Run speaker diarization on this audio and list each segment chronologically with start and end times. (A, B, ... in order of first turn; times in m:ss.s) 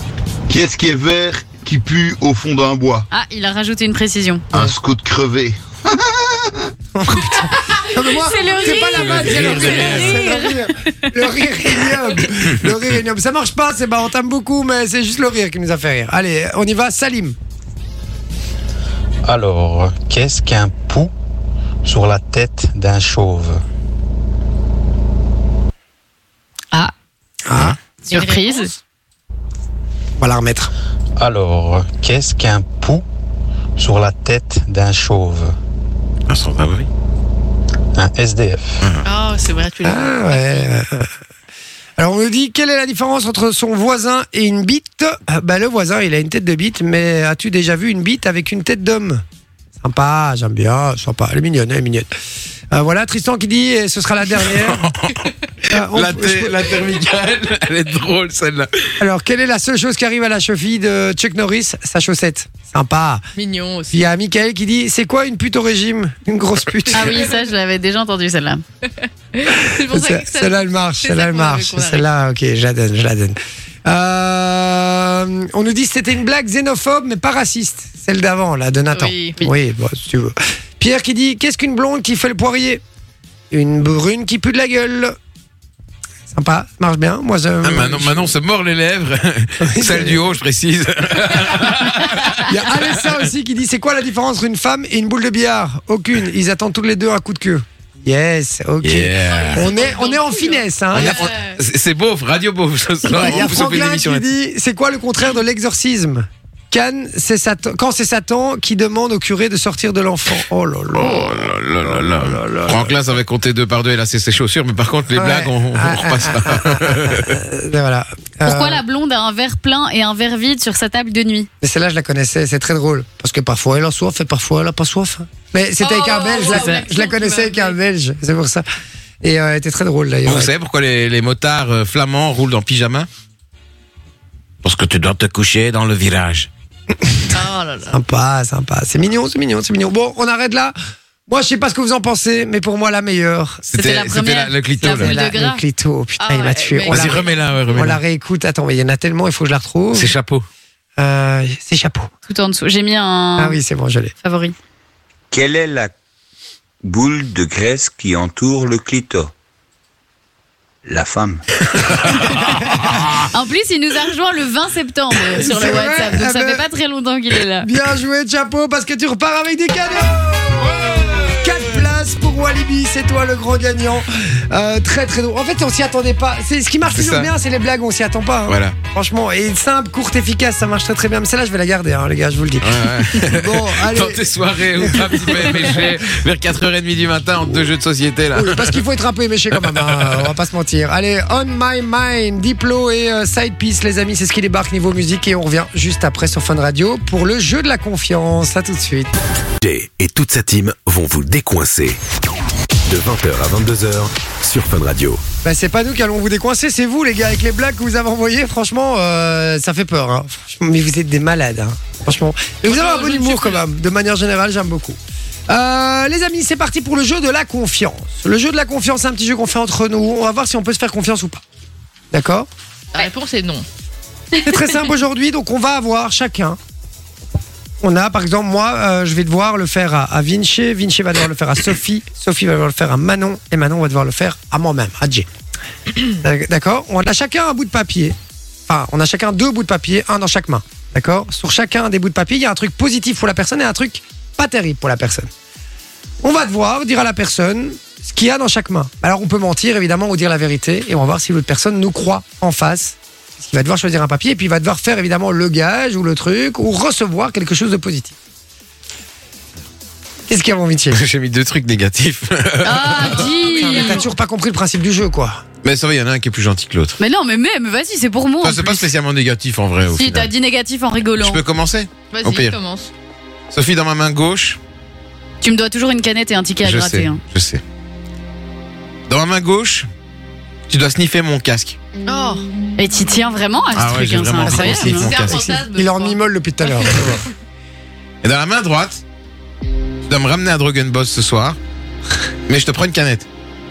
0:00.5-0:03.1 A
0:03.1-0:04.5 B
0:04.5-0:06.6 A
0:06.9-0:17.4 C
0:08.1-0:10.6 B
0:08.9-0:10.2 D
0:19.2-0:21.1 E
0:21.8-0:23.6 E
0:27.5-0:27.8 C
0:28.1-0:28.7 B
0:28.1-0:28.7 F
0:30.2-0:30.7 C
0:31.2-0:33.0 E
0:33.8-0:35.5 E
0:36.3-0:36.9 D
0:38.0-0:38.8 E
0:39.0-0:40.7 F
0:39.8-0:41.1 C
0:42.0-0:49.2 C
0:49.8-0:52.1 C
0:52.7-0:54.9 C
0:54.6-0:55.2 D
0:55.7-0:56.8 C
0:55.7-0:59.0 D
0:59.0-1:03.2 C
1:03.4-1:04.0 F
1:03.9-1:07.3 C
1:06.9-1:08.6 B
1:09.0-1:12.1 F
1:09.8-1:22.8 C
1:18.9-1:19.4 F
1:23.5-1:25.2 C
1:26.3-1:28.4 C
1:27.6-1:32.8 D
1:29.6-1:30.2 C
1:32.5-1:41.3 C
1:38.8-1:39.7 D
1:39.3-1:41.6 F
1:40.9-1:44.3 D
1:43.1-1:52.9 C
1:50.9-1:57.4 D
1:55.1-1:58.8 C
1:58.4-2:01.5 B
2:01.6-2:08.6 C
2:05.8-2:07.8 F
2:06.5-2:06.8 B
2:09.2-2:10.5 C
2:10.2-2:13.1 D
2:14.6-2:16.5 D
2:17.3-2:18.0 F
2:17.9-2:20.8 C
2:21.3-2:23.6 C
2:23.7-2:25.1 D
2:23.7-2:25.6 B
2:24.8-2:30.1 C
2:26.2-2:27.9 F
2:26.9-2:28.0 D
2:29.9-2:30.5 D
2:31.0-2:32.1 C
2:32.3-2:33.6 B
2:33.4-2:34.1 C
2:34.2-2:34.6 B
2:35.3-2:35.9 G
2:36.8-2:39.3 G
2:40.8-2:41.9 G
2:42.4-2:42.8 C
2:43.3-2:47.7 B
2:45.3-2:46.6 C
2:47.6-3:06.0 C
2:50.6-2:51.6 D
2:56.9-2:57.3 D
2:58.5-2:58.8 D
3:02.6-3:08.8 D
3:08.3-3:19.1 C
3:09.6-3:10.3 D
3:19.6-3:22.0 H
3:22.9-3:25.2 H
3:25.4-3:41.4 C
3:32.7-3:33.6 F
3:42.1-3:42.5 C
3:42.9-3:43.7 F
3:44.4-3:46.6 C
3:47.8-3:55.3 C
3:56.1-3:58.2 C
3:58.7-4:05.3 C
4:06.2-4:18.2 C
4:20.3-4:21.0 C
4:20.9-4:23.3 D
4:22.6-4:24.0 B
4:23.2-4:24.1 F
4:23.6-4:25.4 C
4:25.6-4:27.0 D
4:27.0-4:28.9 B
4:28.4-4:30.3 D
4:29.9-4:31.4 B
4:31.2-4:32.6 D
4:32.1-4:32.9 F
4:33.5-4:34.6 D
4:35.4-4:37.2 B
4:36.6-4:37.6 D
4:39.1-4:39.9 D
4:40.7-4:41.8 D
4:42.1-4:42.4 F
4:42.8-4:45.0 B
4:43.8-4:45.5 D
4:44.6-4:47.2 C
4:44.7-4:47.2 F
4:48.2-4:49.0 D
4:50.0-4:51.6 D
4:52.5-4:53.3 D